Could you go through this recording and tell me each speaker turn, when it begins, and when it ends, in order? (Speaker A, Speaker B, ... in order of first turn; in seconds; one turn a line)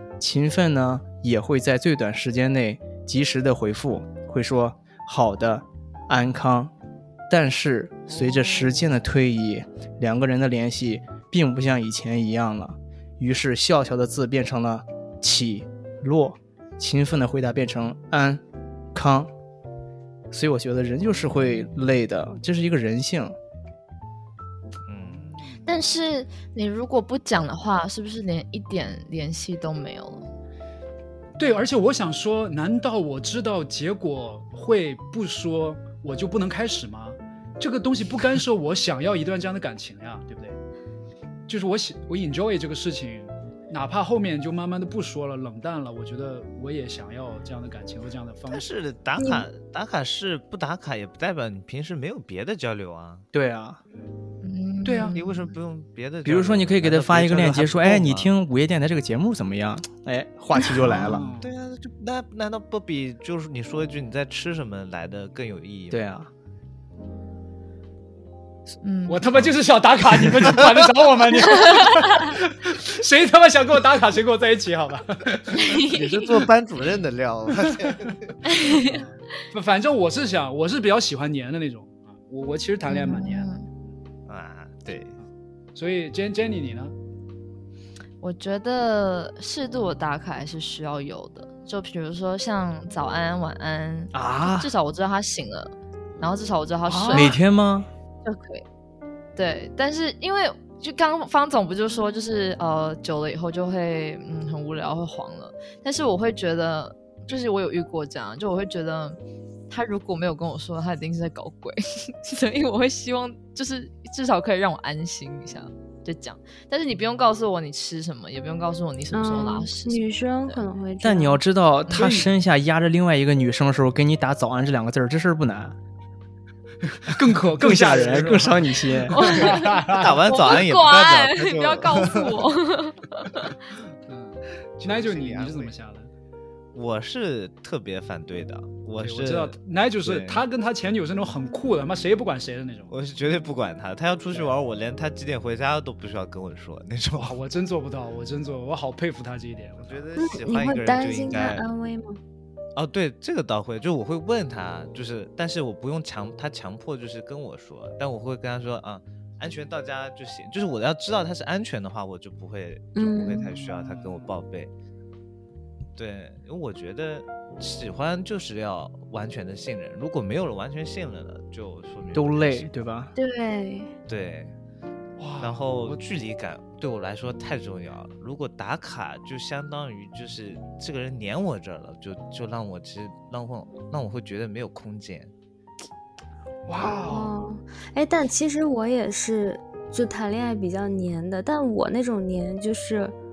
Speaker A: 0.2-6.7
Speaker A: 7.3-18.4
Speaker B: 8.1-8.8
Speaker A: 18.9-19.3
Speaker A: 20.3-23.3
Speaker C: 24.9-25.5
Speaker D: 25.6-30.3
Speaker B: 31.4-40.6
Speaker B: 41.5-48.6
Speaker C: 48.5-53.2
Speaker E: 49.2-49.5
Speaker A: 53.3-53.8
Speaker D: 54.4-55.5
Speaker B: 54.8-55.2
Speaker C: 55.1-58.3
Speaker A: 56.2-61.2
Speaker B: 60.9-61.5
Speaker C: 61.4-66.0
Speaker A: 65.9-66.3
Speaker D: 68.8-69.3
Speaker B: 69.1-75.7
Speaker D: 75.5-76.4
Speaker C: 75.8-78.2
Speaker D: 78.5-79.0
Speaker B: 78.8-83.5
Speaker D: 82.9-83.7
Speaker C: 84.3-85.2
Speaker B: 85.7-86.9
Speaker D: 88.2-97.4
Speaker A: 94.1-94.7
Speaker B: 96.8-97.3
Speaker A: 97.1-97.9
Speaker D: 98.2-98.6
Speaker D: 99.3-109.2
Speaker D: 109.7-120.6
Speaker E: 119.1-121.4
Speaker A: 121.0-125.8
Speaker B: 121.9-122.3
Speaker B: 126.8-128.6
Speaker A: 127.5-129.2
Speaker D: 129.1-133.6
Speaker B: 129.2-130.2
Speaker C: 129.7-132.4
Speaker B: 134.1-136.1
Speaker C: 134.8-135.7
Speaker C: 136.7-140.5
Speaker B: 139.0-142.9
Speaker C: 142.9-147.4
Speaker B: 147.2-150.0
Speaker C: 149.8-151.7
Speaker E: 150.2-152.2
Speaker C: 152.8-164.7
Speaker E: 162.9-163.6
Speaker B: 163.7-164.3
Speaker C: 165.9-172.7
Speaker A: 172.1-173.1
Speaker E: 173.2-173.9
Speaker C: 174.1-174.5
Speaker B: 175.2-176.0
Speaker C: 175.4-185.3
Speaker B: 186.7-187.3
Speaker E: 187.0-193.1